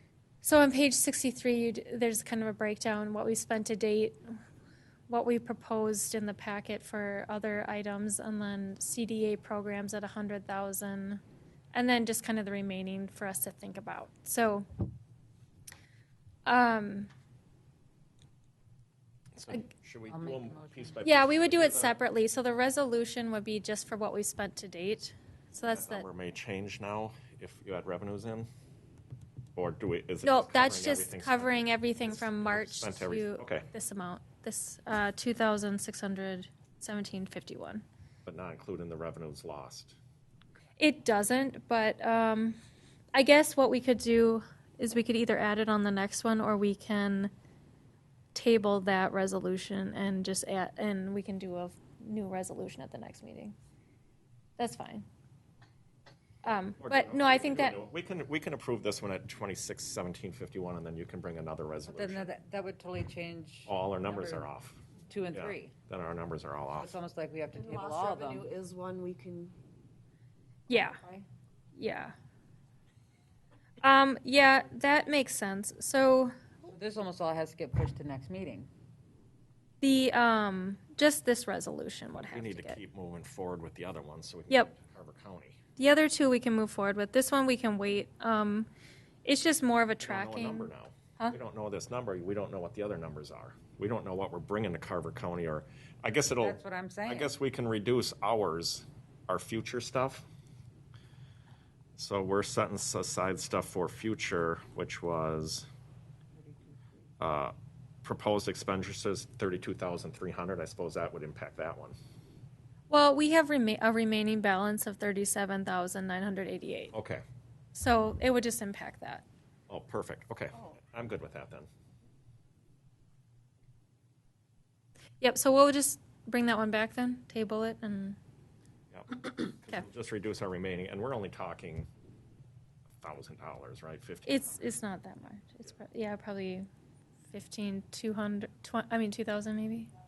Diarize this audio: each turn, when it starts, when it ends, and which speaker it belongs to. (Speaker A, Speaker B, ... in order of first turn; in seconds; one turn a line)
Speaker A: 0.4-4.3
Speaker A: 5.1-11.2
Speaker A: 11.7-14.7
Speaker A: 16.4-17.1
Speaker B: 19.4-22.0
Speaker C: 20.1-21.0
Speaker A: 21.0-26.0
Speaker B: 25.6-28.5
Speaker B: 29.5-33.7
Speaker A: 30.2-37.8
Speaker B: 38.2-40.0
Speaker A: 40.8-42.6
Speaker A: 43.1-47.3
Speaker A: 48.3-53.5
Speaker A: 54.6-55.0
Speaker A: 56.4-57.8
Speaker B: 56.8-62.3
Speaker C: 61.9-64.5
Speaker B: 63.6-67.0
Speaker C: 65.1-65.7
Speaker C: 66.7-68.5
Speaker D: 67.5-69.5
Speaker A: 70.7-71.0
Speaker C: 70.7-71.2
Speaker A: 71.7-72.1
Speaker A: 73.8-76.3
Speaker C: 76.7-78.7
Speaker A: 79.8-82.8
Speaker B: 82.2-85.6
Speaker A: 85.8-88.7
Speaker A: 89.2-91.4
Speaker B: 90.0-100.3
Speaker C: 96.4-97.3
Speaker B: 102.0-105.7
Speaker B: 107.2-112.0
Speaker A: 112.9-116.9
Speaker B: 116.9-117.2
Speaker A: 117.7-119.2
Speaker B: 119.7-121.7
Speaker A: 125.2-128.2
Speaker B: 128.9-131.9
Speaker B: 132.9-134.6
Speaker A: 134.2-136.7
Speaker A: 137.3-139.9